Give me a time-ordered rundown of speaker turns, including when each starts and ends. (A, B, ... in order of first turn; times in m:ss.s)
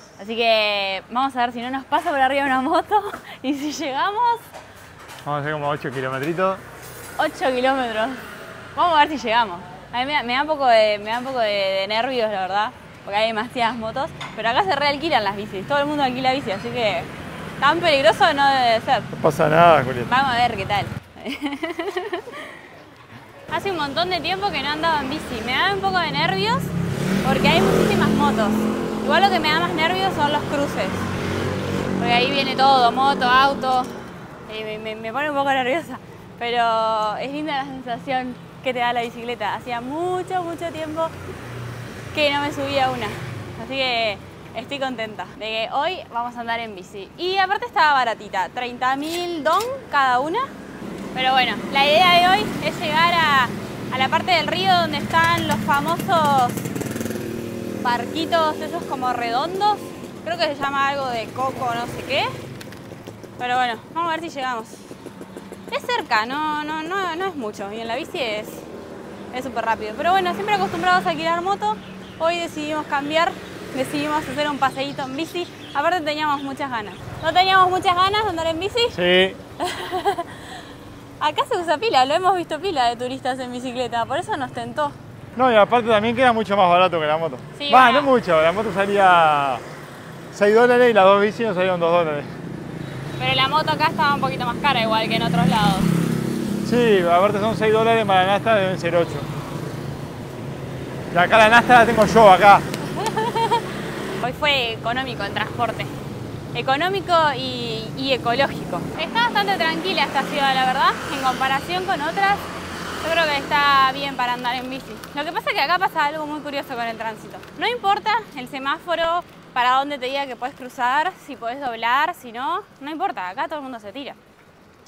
0:00.2-0:04.4 A
0:05.2-0:06.6 B
0:07.2-0:08.2 A
0:08.8-0:19.1 A
0:19.1-0:20.1 B
0:20.0-0:22.5 A
0:23.5-0:26.7 A
0:27.2-0:31.1 A
0:32.0-0:33.9 A
0:34.5-0:41.1 A
0:42.1-0:50.5 A
0:51.1-0:56.7 A
0:57.8-1:02.3 A
1:03.4-1:04.9 A
1:05.7-1:08.7 A
1:09.3-1:19.0 A
1:18.9-1:19.4 B
1:19.6-1:20.6 A
1:21.2-1:25.0 A
1:25.3-1:29.6 B
1:27.5-1:28.1 A
1:30.3-1:32.3 B
1:33.2-1:35.9 A
1:36.6-1:39.3 B
1:41.1-1:42.6 B
1:42.8-1:43.7 A
1:44.2-1:45.9 A
1:46.5-1:52.5 A
1:53.0-2:04.2 A